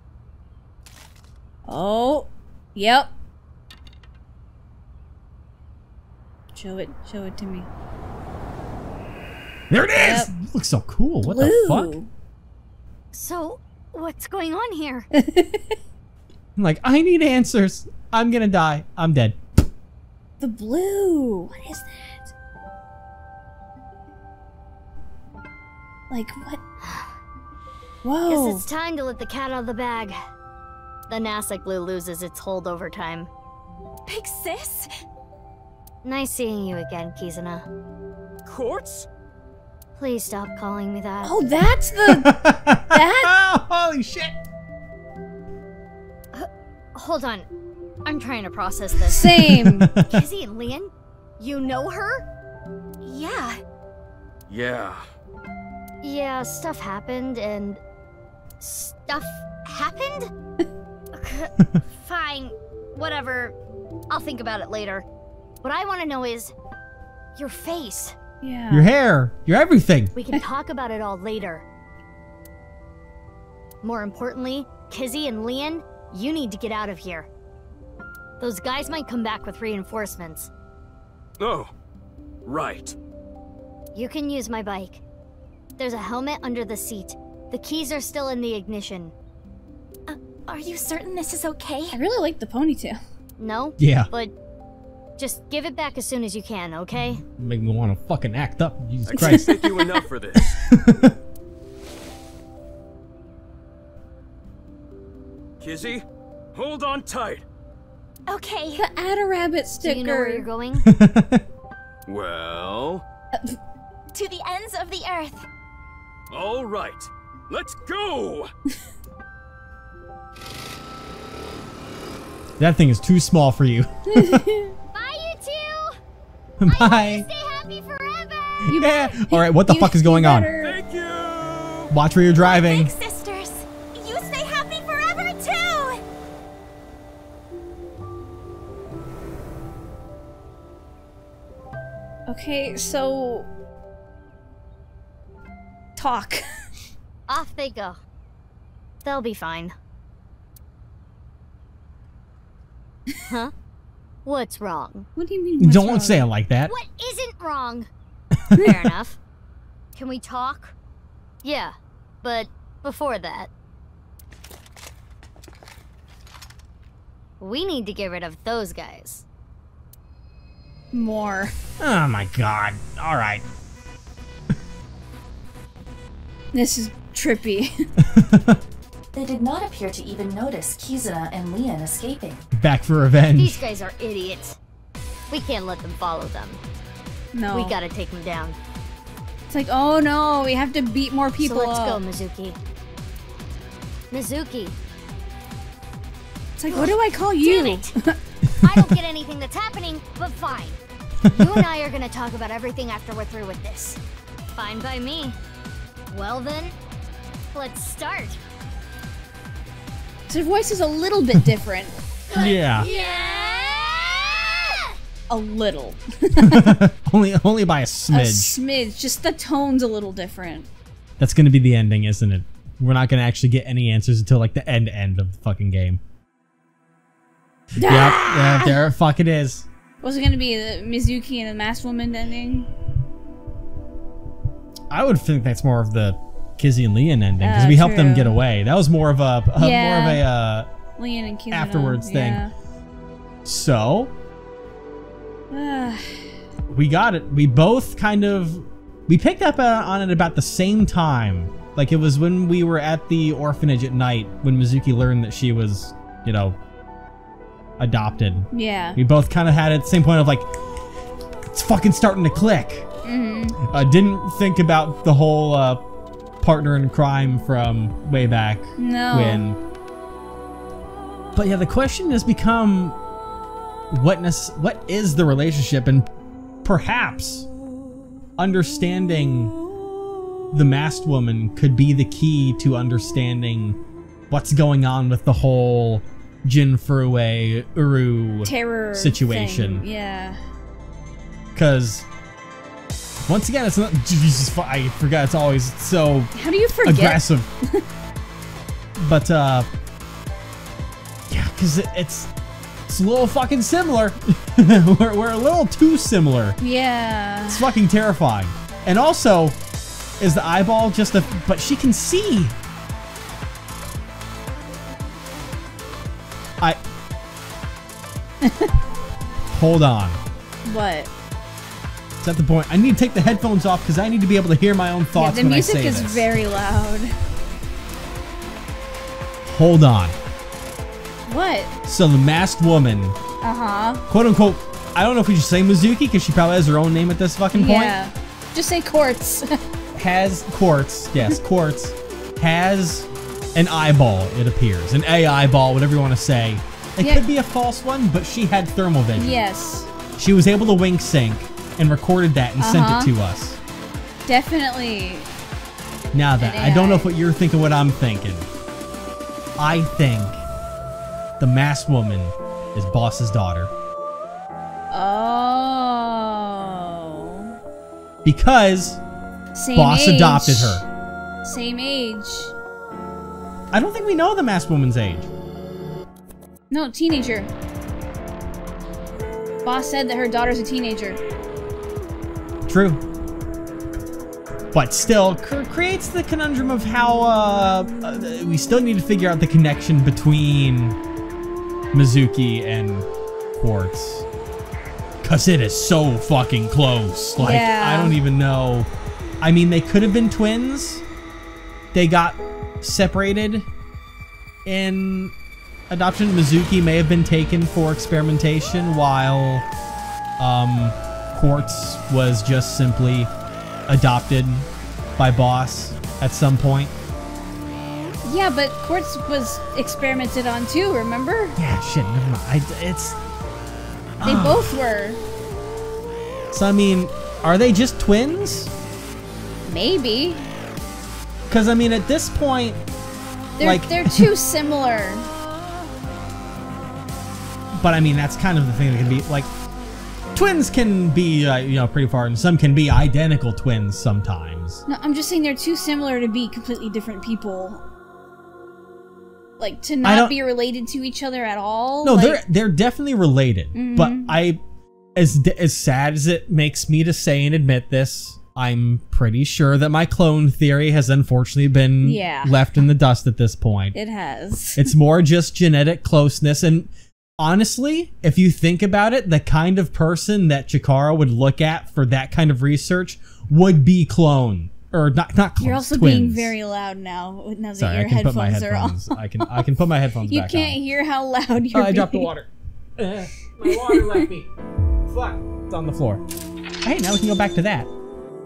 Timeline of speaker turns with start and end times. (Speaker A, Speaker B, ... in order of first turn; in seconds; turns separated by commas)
Speaker A: 1.7-3.1, Speaker A: 6.5-7.7, Speaker B: 9.7-12.0, Speaker A: 10.0-10.3, Speaker A: 11.2-12.1, Speaker C: 13.1-15.1, Speaker A: 15.1-15.7, Speaker B: 16.6-19.7, Speaker A: 20.4-22.3, Speaker A: 26.1-26.6, Speaker C: 26.8-27.2, Speaker A: 28.0-28.6, Speaker C: 28.3-30.1, Speaker C: 31.1-33.3, Speaker D: 34.1-34.9, Speaker C: 36.0-37.7, Speaker E: 38.4-39.1, Speaker C: 40.0-41.5, Speaker A: 41.2-43.3, Speaker B: 42.0-44.4, Speaker C: 46.3-47.5, Speaker C: 48.0-49.3, Speaker A: 49.1-49.9, Speaker B: 49.2-50.2, Speaker C: 50.1-52.3, Speaker D: 53.0-53.6, Speaker E: 54.5-55.0, Speaker C: 56.0-57.8, Speaker C: 58.6-60.3, Speaker C: 61.1-63.5, Speaker C: 64.1-65.0, Speaker C: 65.6-66.5, Speaker C: 67.3-68.2, Speaker A: 68.4-68.9, Speaker B: 68.7-70.1, Speaker C: 70.1-71.6, Speaker C: 73.8-77.3, Speaker C: 78.4-80.5, Speaker E: 81.4-81.7, Speaker E: 82.5-83.0, Speaker C: 83.9-85.0, Speaker C: 85.8-89.1, Speaker D: 90.1-92.0, Speaker A: 91.9-93.0, Speaker C: 93.4-94.3, Speaker B: 93.8-94.1, Speaker C: 95.2-97.2, Speaker B: 97.4-99.6, Speaker E: 99.0-100.8, Speaker A: 99.1-99.5, Speaker B: 100.4-101.1, Speaker E: 105.6-106.0, Speaker E: 106.5-107.4, Speaker D: 108.3-108.8, Speaker A: 108.8-110.5, Speaker C: 109.7-110.9, Speaker B: 110.8-111.4, Speaker E: 112.1-113.0, Speaker D: 114.1-115.5, Speaker E: 116.3-118.5, Speaker B: 122.6-124.5, Speaker A: 124.1-124.7, Speaker C: 124.9-126.0, Speaker B: 126.6-127.2, Speaker C: 126.7-128.7, Speaker B: 128.7-130.5, Speaker A: 128.7-130.7, Speaker E: 130.6-131.9, Speaker B: 131.9-132.9, Speaker D: 132.4-136.0, Speaker A: 142.3-143.5, Speaker A: 145.9-146.4, Speaker C: 147.3-148.0, Speaker C: 149.0-149.7, Speaker C: 153.3-153.5, Speaker C: 154.2-155.1, Speaker A: 155.2-156.2, Speaker B: 155.6-156.7, Speaker C: 156.7-157.9, Speaker C: 158.5-159.2, Speaker C: 159.9-160.7, Speaker C: 161.4-163.5, Speaker C: 167.4-169.2, Speaker A: 170.9-171.5, Speaker B: 171.8-173.4, Speaker A: 176.5-177.7, Speaker B: 178.0-178.6, Speaker F: 179.1-182.5, Speaker B: 182.5-183.6, Speaker C: 183.3-184.6, Speaker C: 185.3-186.6, Speaker A: 187.3-187.8, Speaker C: 187.5-188.6, Speaker A: 189.5-192.0, Speaker C: 191.4-192.6, Speaker C: 194.1-194.8, Speaker A: 196.6-198.2, Speaker C: 196.7-197.9, Speaker B: 198.5-199.0, Speaker C: 198.6-204.0, Speaker B: 201.2-201.7, Speaker C: 204.6-205.4, Speaker C: 206.1-206.7, Speaker C: 207.5-208.4, Speaker A: 210.3-212.0, Speaker C: 212.3-214.9, Speaker B: 212.3-212.9, Speaker A: 215.3-216.8, Speaker B: 216.4-218.6, Speaker A: 218.1-220.7, Speaker B: 221.2-226.0, Speaker A: 227.8-228.8, Speaker B: 227.8-229.7, Speaker A: 230.0-232.7, Speaker B: 234.9-240.7, Speaker A: 237.4-238.3, Speaker A: 239.6-240.2, Speaker A: 241.0-242.5, Speaker B: 241.5-242.4, Speaker B: 243.4-244.1, Speaker A: 245.5-246.3, Speaker B: 246.7-256.6, Speaker B: 257.8-260.5, Speaker A: 258.5-259.0, Speaker B: 261.5-262.9, Speaker A: 263.0-263.6, Speaker B: 263.6-265.8, Speaker B: 266.4-269.6, Speaker A: 268.8-269.5, Speaker B: 271.3-273.0, Speaker B: 273.9-276.1, Speaker B: 276.6-277.5, Speaker B: 278.4-279.5, Speaker B: 280.5-283.8, Speaker B: 284.3-289.8, Speaker A: 288.4-290.4, Speaker B: 291.5-292.1, Speaker B: 293.2-296.3, Speaker A: 296.3-297.8, Speaker B: 296.8-297.5, Speaker B: 299.0-299.7, Speaker B: 301.3-302.3, Speaker B: 302.9-306.6, Speaker A: 306.6-307.7, Speaker B: 307.5-309.6, Speaker B: 310.2-312.5, Speaker A: 318.4-318.7, Speaker B: 319.5-320.2, Speaker A: 320.6-321.1, Speaker B: 322.2-326.4, Speaker A: 325.1-327.1, Speaker B: 329.4-330.1, Speaker A: 331.3-331.7, Speaker B: 331.9-333.2, Speaker A: 333.4-334.0, Speaker B: 334.1-338.0, Speaker A: 337.5-339.6, Speaker B: 339.9-349.4, Speaker A: 347.0-347.2, Speaker A: 349.1-349.9, Speaker B: 350.1-353.6, Speaker A: 352.6-353.1, Speaker A: 354.2-355.3, Speaker B: 356.1-358.5, Speaker A: 356.4-357.1, Speaker B: 359.6-360.4, Speaker B: 361.4-363.7, Speaker A: 364.9-367.5, Speaker B: 368.2-369.0, Speaker A: 369.5-370.8, Speaker B: 369.7-370.8, Speaker A: 371.4-372.5, Speaker B: 373.7-375.3, Speaker A: 376.7-377.5, Speaker A: 379.6-381.2, Speaker B: 382.6-383.0, Speaker B: 384.7-391.0, Speaker B: 391.9-394.2, Speaker B: 395.2-398.9, Speaker A: 397.4-398.2, Speaker B: 399.4-401.0, Speaker B: 401.9-403.7, Speaker B: 404.6-405.3, Speaker B: 405.9-409.7, Speaker B: 410.4-413.3, Speaker B: 413.9-416.9, Speaker A: 418.2-421.6, Speaker B: 421.6-423.2, Speaker B: 424.2-424.8, Speaker A: 424.2-425.2, Speaker B: 426.5-428.7, Speaker A: 429.6-430.4, Speaker B: 431.5-432.8, Speaker A: 433.6-435.3, Speaker B: 433.6-434.3, Speaker B: 437.8-439.5, Speaker B: 440.3-444.8, Speaker A: 444.9-447.8, Speaker A: 449.6-452.4, Speaker B: 450.0-450.4, Speaker B: 452.0-454.6, Speaker A: 453.7-454.3, Speaker B: 455.1-463.9, Speaker A: 462.0-462.7, Speaker A: 463.9-464.9, Speaker B: 464.8-476.5, Speaker A: 475.6-479.6, Speaker B: 477.8-480.8, Speaker A: 480.3-482.3, Speaker B: 481.7-484.5, Speaker A: 483.7-484.2, Speaker B: 485.1-486.2, Speaker B: 486.8-487.9